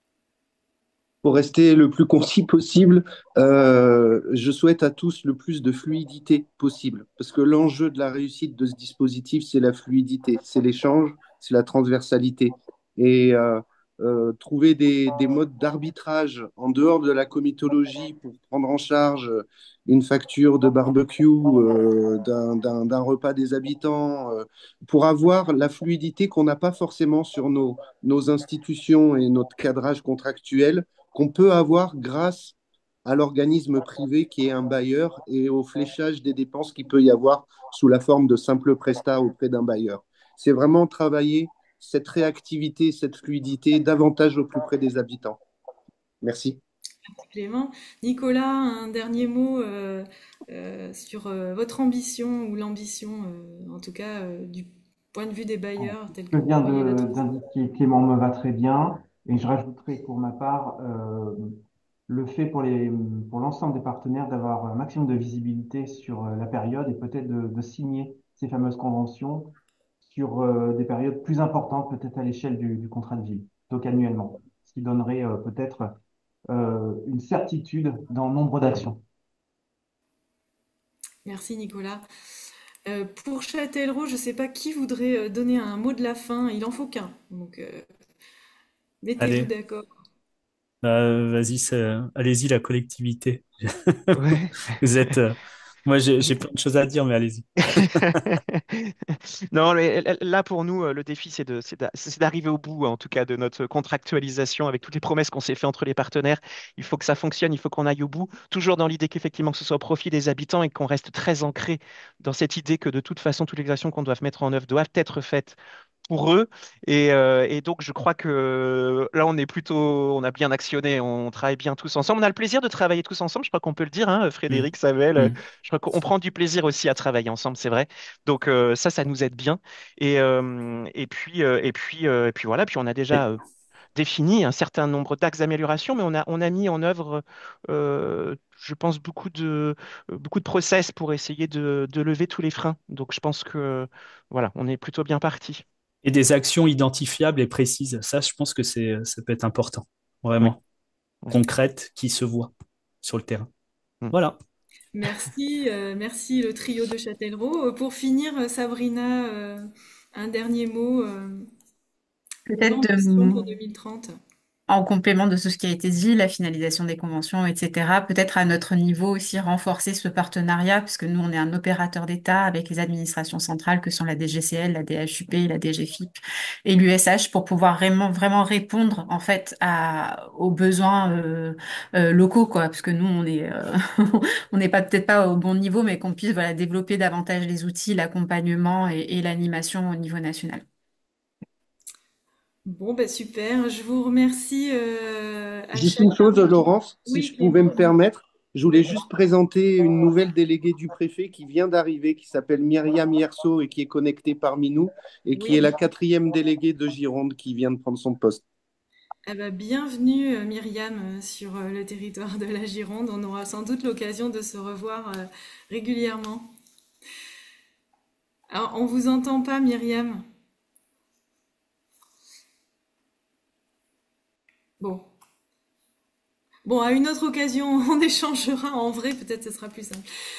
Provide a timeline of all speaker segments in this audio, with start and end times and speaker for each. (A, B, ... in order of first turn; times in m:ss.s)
0:01.2-0:45.4 A
0:46.2-0:46.6 A
0:47.2-0:57.2 B
0:55.8-1:01.6 C
1:02.1-1:15.9 C
1:16.5-1:19.0 C
1:21.2-1:22.0 B
1:22.9-1:27.8 B
1:29.0-1:29.9 B
1:29.2-1:29.5 D
1:30.8-1:34.2 D
1:34.1-1:34.7 E
1:34.8-1:38.0 D
1:37.7-1:55.6 E
1:56.1-2:13.4 E
2:04.5-2:05.4 D
2:14.0-2:25.6 E
2:26.0-2:30.6 D
2:31.3-2:33.5 D
2:34.1-2:34.4 D
2:34.9-2:41.5 B
2:42.4-2:43.4 F
2:42.6-2:44.1 B
2:44.7-3:10.6 F
3:12.6-3:17.9 B
3:15.7-3:28.4 A
3:25.3-3:25.7 B
3:29.3-3:36.5 B
3:38.5-3:40.2 B
3:44.8-3:45.1 B
3:46.6-3:50.0 B